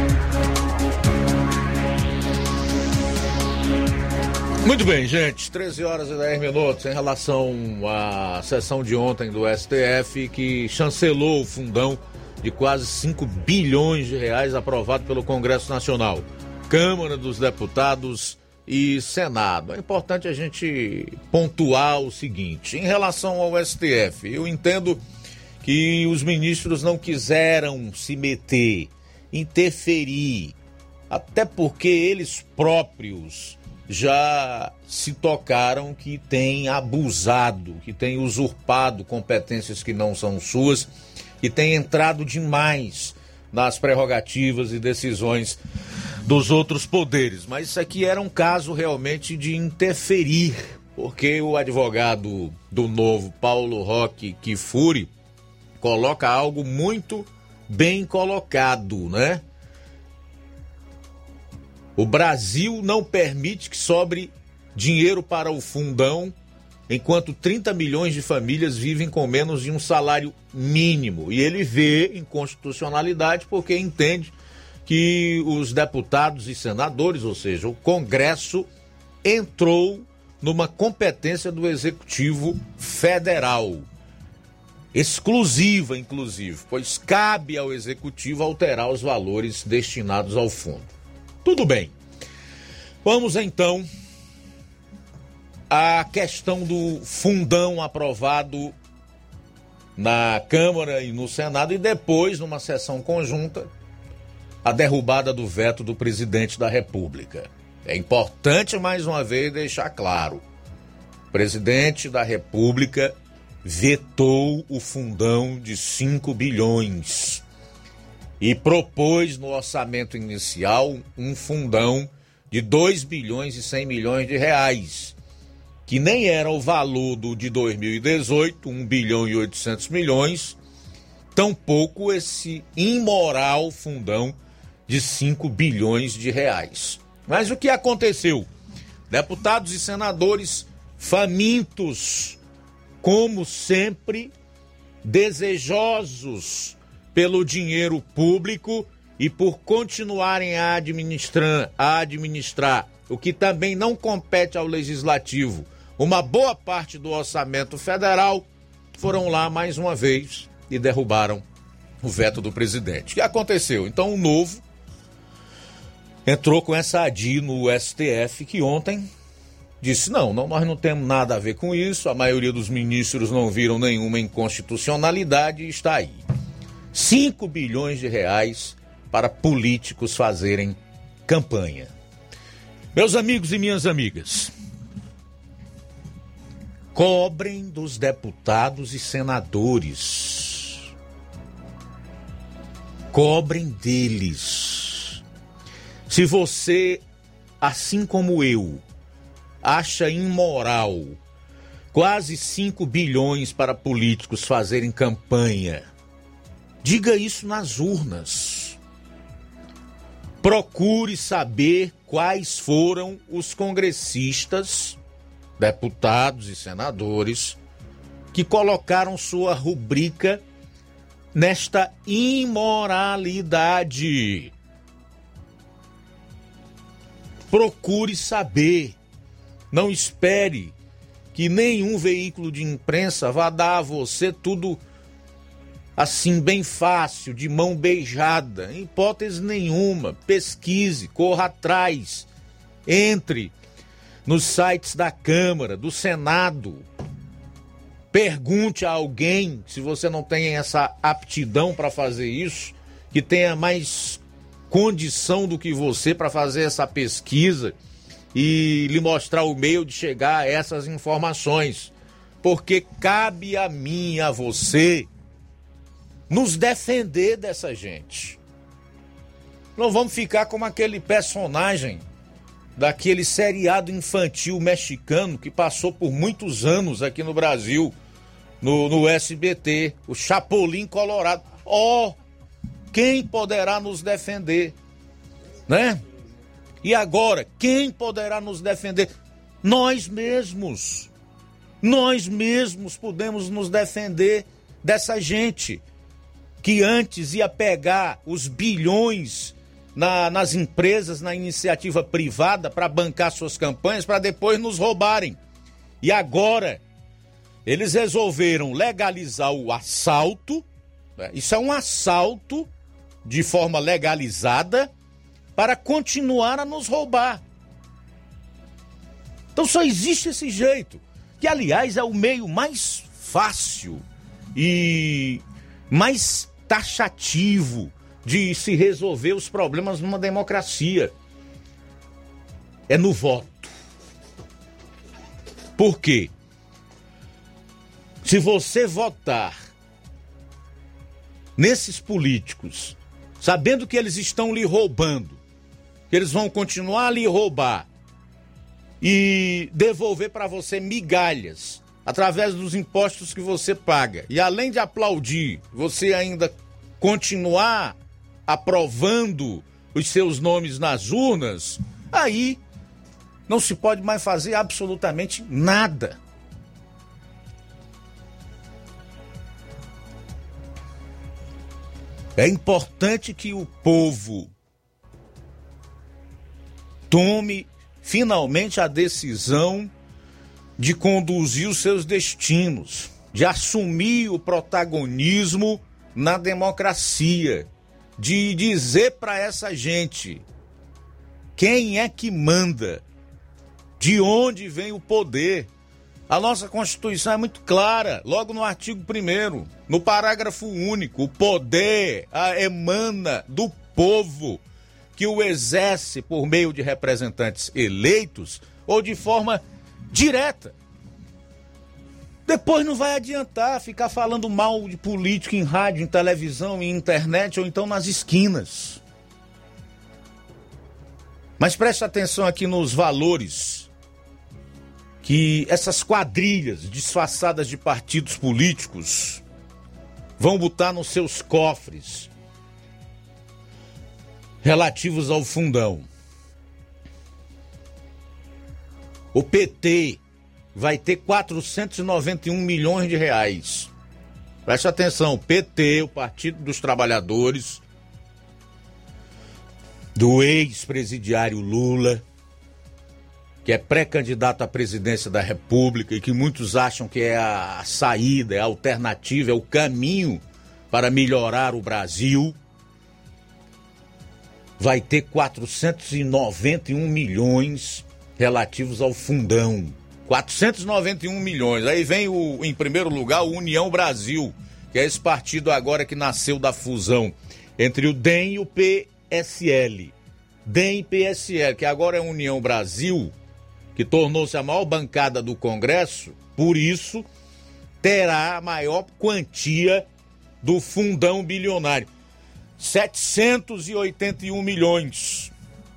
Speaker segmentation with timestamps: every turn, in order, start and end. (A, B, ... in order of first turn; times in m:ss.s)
0:04.6-0:25.0 A
0:25.6-0:30.6 A
0:31.1-0:40.9 A
0:41.4-0:45.6 A
0:46.2-0:55.1 A
0:55.8-0:59.4 A
1:02.0-1:06.3 A
1:06.9-1:14.3 A
1:14.9-1:18.7 A
1:19.2-1:23.9 A
1:24.9-1:30.9 A
1:31.4-1:31.9 A
1:33.0-1:33.9 A
1:35.7-1:38.8 A
1:40.0-1:43.7 A
1:44.6-1:50.4 A
1:51.3-1:57.4 A
1:58.4-2:05.2 A
2:05.9-2:10.6 A
2:11.3-2:14.4 A
2:14.9-2:18.5 A
2:19.1-2:22.4 A
2:23.0-2:24.3 A
2:25.0-2:41.4 A
2:42.0-2:44.6 A
2:46.3-2:49.1 A
2:49.8-2:56.2 A
2:56.9-3:01.9 A
3:03.0-3:04.5 A
3:06.9-3:10.9 A
3:13.1-3:15.2 A
3:16.1-3:17.0 A
3:17.6-3:18.8 A
3:19.6-3:21.2 A
3:21.9-3:25.9 A
3:26.8-3:28.8 A
3:30.4-3:35.0 A
3:35.6-3:37.6 A
3:38.3-3:40.4 A
3:41.3-3:44.5 A
3:47.5-3:49.0 A
3:49.7-3:50.7 A
3:51.3-3:54.8 A
3:56.0-4:02.3 A
4:02.9-4:03.5 A
4:04.3-4:06.8 A
4:08.1-4:17.8 A
4:18.3-4:21.9 A
4:22.4-4:25.1 A
4:26.3-4:28.4 A
4:29.8-4:32.0 A
4:32.8-4:38.0 A
4:38.6-4:42.2 A
4:42.9-4:44.8 A
4:45.7-4:46.0 A
4:46.8-4:49.1 A
4:49.6-4:51.1 A
4:51.8-4:55.8 A
4:56.6-5:05.4 A
5:06.0-5:06.8 A
5:07.7-5:10.6 A
5:11.2-5:12.7 A
5:13.2-5:14.9 A
5:15.6-5:17.4 A
5:19.6-5:24.0 A
5:24.6-5:31.1 A
5:32.9-5:33.7 A
5:35.8-5:36.3 A
5:38.2-5:39.6 A
5:41.6-5:45.4 A
5:46.1-5:47.9 A
5:49.0-5:58.0 A
5:58.5-6:02.6 A
6:03.5-6:06.2 A
6:12.4-6:14.5 A
6:17.1-6:19.9 A
6:20.8-6:30.4 A
6:31.6-6:33.0 A
6:34.0-6:35.7 A
6:36.3-6:44.6 A
6:45.2-6:50.7 A
6:52.5-6:59.0 A
7:01.6-7:03.9 A
7:05.2-7:09.4 A
7:10.4-7:12.3 A
7:14.6-7:16.1 A
7:19.3-7:20.2 A
7:20.8-7:23.9 A
7:24.7-7:27.8 A
7:30.2-7:32.2 A
7:33.6-7:42.6 A
7:44.8-8:00.1 A
8:00.7-8:03.3 A
8:04.0-8:07.3 A
8:08.0-8:10.1 A
8:10.6-8:12.1 A
8:12.8-8:15.5 A